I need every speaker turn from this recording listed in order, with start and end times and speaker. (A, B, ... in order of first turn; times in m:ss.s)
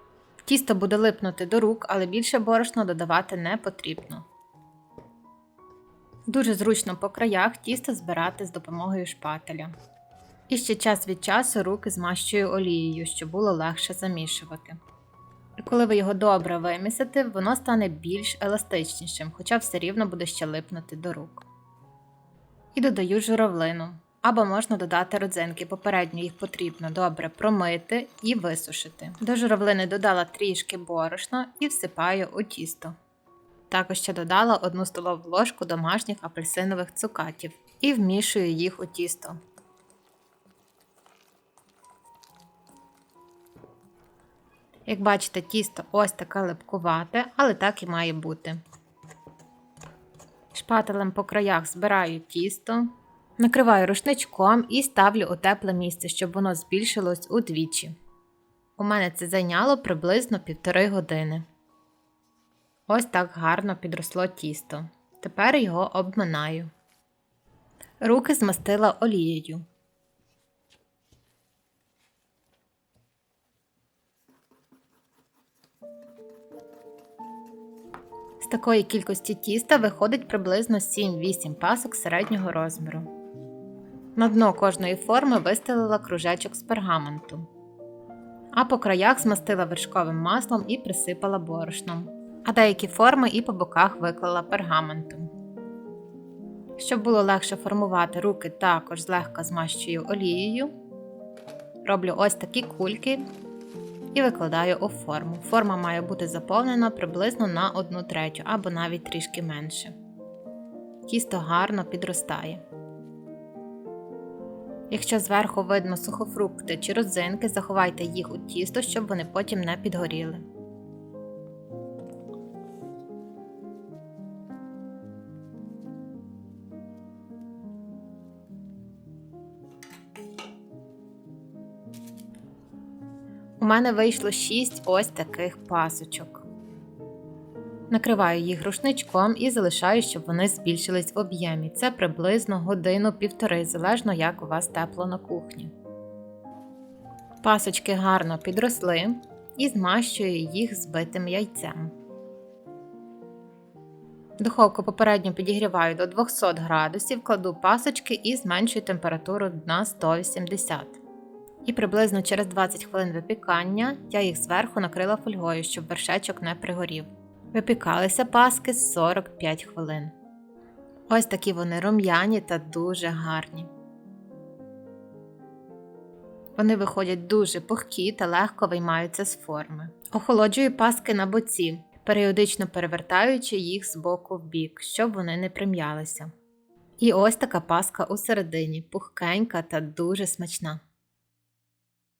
0:00.4-0:04.2 A
0:06.3-0:09.7 A
0:10.5-0:14.8 A
0:15.6-0:21.4 A
0:22.7-0:32.9 A
0:33.7-0:39.4 A
0:44.9-0:48.6 A
0:50.5-0:58.0 A
0:58.8-1:01.4 A
1:02.9-1:06.7 A
1:08.0-1:09.6 A
1:18.4-1:23.1 A
1:24.2-1:27.5 A
1:28.5-1:35.3 A
1:36.8-1:40.7 A
1:41.8-1:43.2 A
1:44.1-1:49.9 A
1:51.1-1:52.6 A
1:54.9-2:00.4 A
2:13.6-2:16.4 A
2:17.9-2:25.7 A
2:27.4-2:31.9 A
2:34.4-2:41.0 A
2:41.6-2:50.1 A
2:51.1-2:53.7 A
2:56.6-3:06.3 A
3:07.0-3:10.8 A